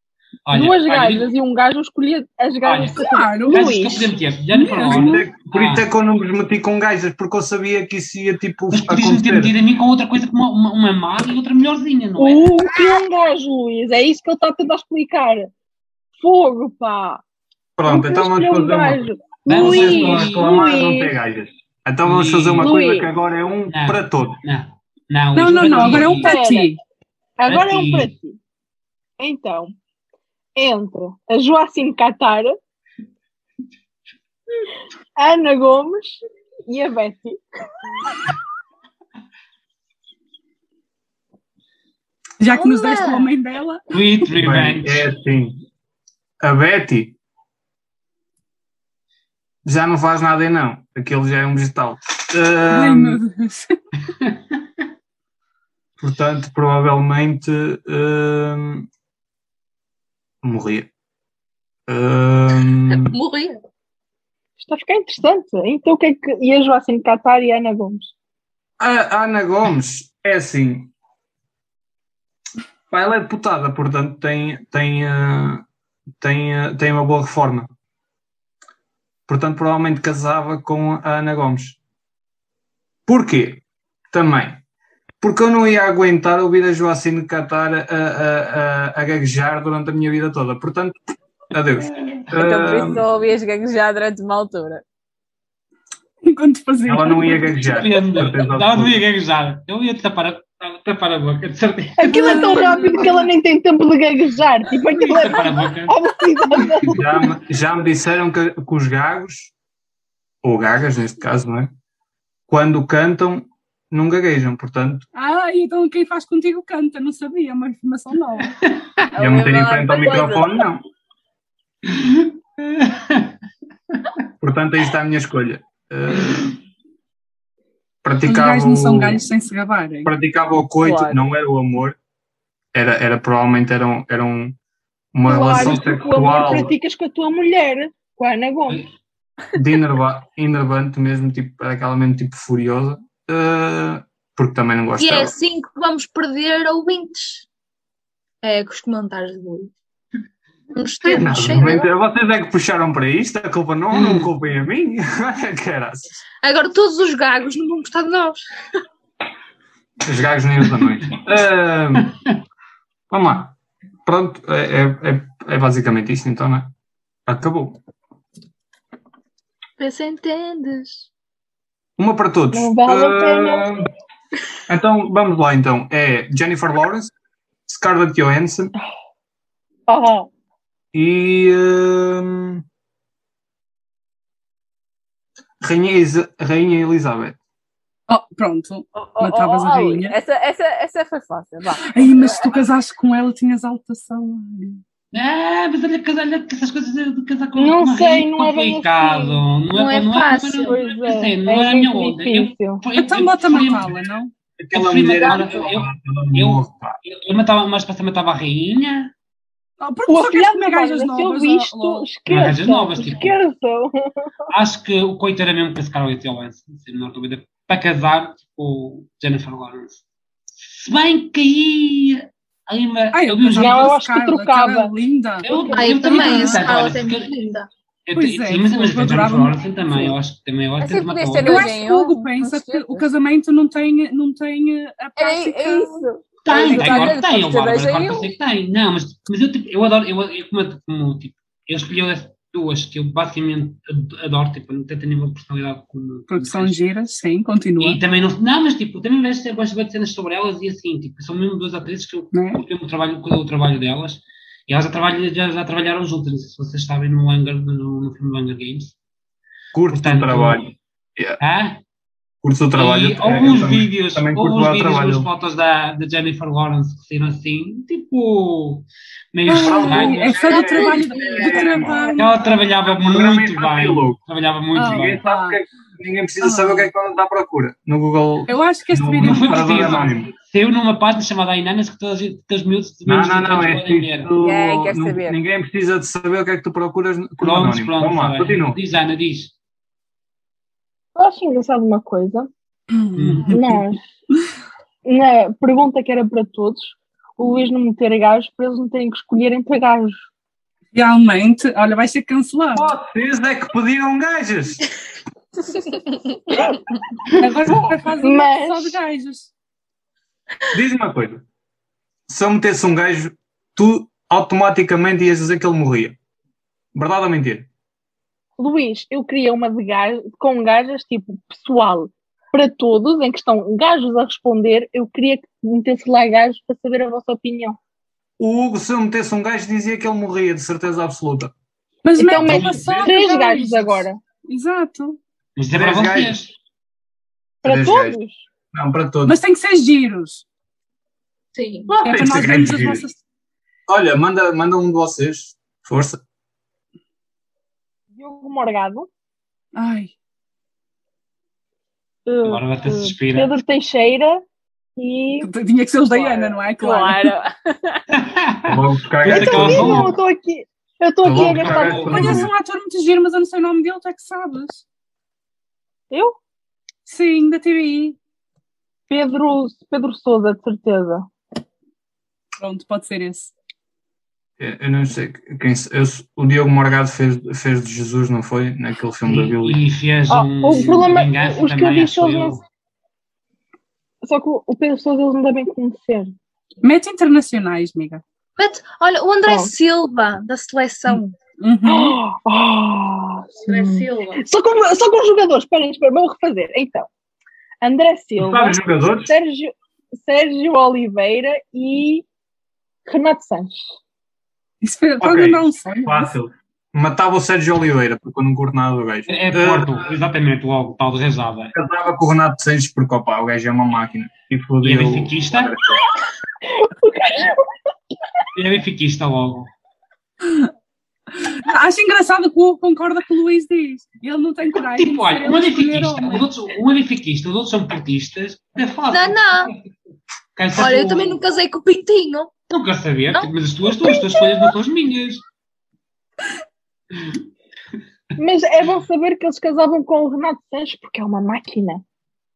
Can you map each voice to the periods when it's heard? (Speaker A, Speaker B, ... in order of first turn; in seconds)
Speaker A: 0.5-1.3, 2.6-5.8, 8.7-12.5, 19.5-20.7, 22.0-22.7, 23.7-26.4, 27.5-28.1, 43.9-45.1, 97.6-102.8, 104.9-106.0, 121.9-123.3, 153.9-154.3, 195.1-204.0, 204.7-209.1, 212.3-213.4, 214.5-220.0, 220.6-223.9, 225.4-227.3, 228.1-231.8, 236.4-246.8, 247.8-258.9, 259.9-260.6, 261.4-261.8, 262.7-270.9, 272.1-275.2, 279.1-284.3, 287.4-289.5, 293.1-293.5, 335.6-336.5, 352.4-353.5, 358.1-360.2, 361.5-362.4, 379.2-382.6, 409.3-411.7, 414.8-415.7, 418.5-419.7, 424.9-429.8, 430.6-431.4, 432.7-435.4, 437.1-437.4
Speaker B: 0.5-4.1, 12.2-15.5, 16.2-17.2, 17.9-21.1, 22.6-23.1, 25.7-26.7, 27.4-28.4, 29.2-29.7, 30.6-32.5, 35.2-37.4, 64.6-68.1, 102.0-107.0, 135.2-138.8, 151.0-151.8, 172.5-173.7, 179.9-180.3, 197.6-199.4, 200.6-202.8, 210.1-214.1, 223.5-224.9, 225.5-225.7, 291.1-292.5, 293.5-294.0, 295.0-300.2, 308.2-309.0, 318.6-327.8, 332.1-334.2, 337.6-338.4, 348.1-349.1, 352.3-354.4, 355.0-355.5, 356.1-356.5, 359.2-362.3, 366.1-366.4, 369.1-371.3, 380.3-382.6, 384.2-386.3, 389.5-389.7, 391.8-397.1, 397.8-402.2, 403.0-403.8, 416.6-417.7, 438.4-442.0
Speaker C: 3.0-3.8, 4.5-5.2, 25.3-26.8, 42.4-43.9, 52.7-53.8, 96.2-97.6, 102.1-103.3, 115.1-118.5, 128.2-130.1, 188.1-190.2, 191.8-194.8, 202.9-204.3, 209.8-212.1, 223.1-226.7, 228.1-230.2, 231.4-235.9, 236.5-237.2, 246.3-248.0, 252.3-252.6, 269.5-272.3, 274.7-275.6, 276.4-276.9, 278.5-280.1, 292.9-293.9, 300.9-302.9, 307.4-309.5, 332.0-335.2, 339.2-340.4, 341.9-343.2, 349.7-350.1, 355.4-357.3, 362.0-364.8, 367.1-368.2, 372.6-373.5, 386.8-388.2, 391.6-392.1, 404.8-406.3, 420.4-420.7, 421.3-426.4
Speaker D: 4.8-9.5, 17.8-24.4, 44.3-45.6, 46.4-47.1, 49.6-53.2, 56.0-58.9, 60.4-60.9, 61.9-63.2, 68.8-70.9, 72.9-75.6, 76.2-77.7, 79.3-81.8, 83.1-84.6, 85.2-91.0, 91.5-93.0, 96.9-99.0, 106.9-109.5, 110.4-111.7, 112.5-115.0, 119.2-120.8, 124.4-126.5, 128.0-129.2, 130.0-132.0, 132.7-134.6, 135.1-136.7, 139.5-145.3, 151.2-156.2, 160.0-162.1, 163.1-163.5, 164.1-166.7, 167.3-167.8, 172.0-173.8, 174.7-177.1, 177.7-178.7, 180.9-182.6, 185.6-187.4, 204.6-207.0, 259.7-261.4, 262.4-265.3, 269.5-272.0, 273.0-274.2, 274.8-280.3, 283.1-288.8, 302.7-304.8, 307.6-308.1, 310.7-311.4, 312.3-316.1, 316.9-317.7, 328.4-331.5, 332.4-333.1, 335.7-336.4, 337.6-338.2, 338.7-339.4, 342.0-343.1, 343.9-346.2, 358.7-360.1, 361.2-362.5, 374.6-379.8, 398.4-399.3, 405.2-410.0, 411.7-416.0
Speaker E: 42.5-43.3, 62.9-63.6, 145.0-147.4, 148.4-149.7, 150.7-151.9, 156.4-158.4, 169.8-171.1, 199.7-200.8, 225.7-227.7, 341.5-341.9, 388.6-391.3, 393.7-394.4, 429.1-429.7, 430.7-432.5, 434.0-434.4
Speaker F: 92.3-94.8, 119.1-120.7, 130.8-131.2, 188.9-192.6, 230.8-233.1, 235.2-238.3, 284.4-285.4, 356.8-358.0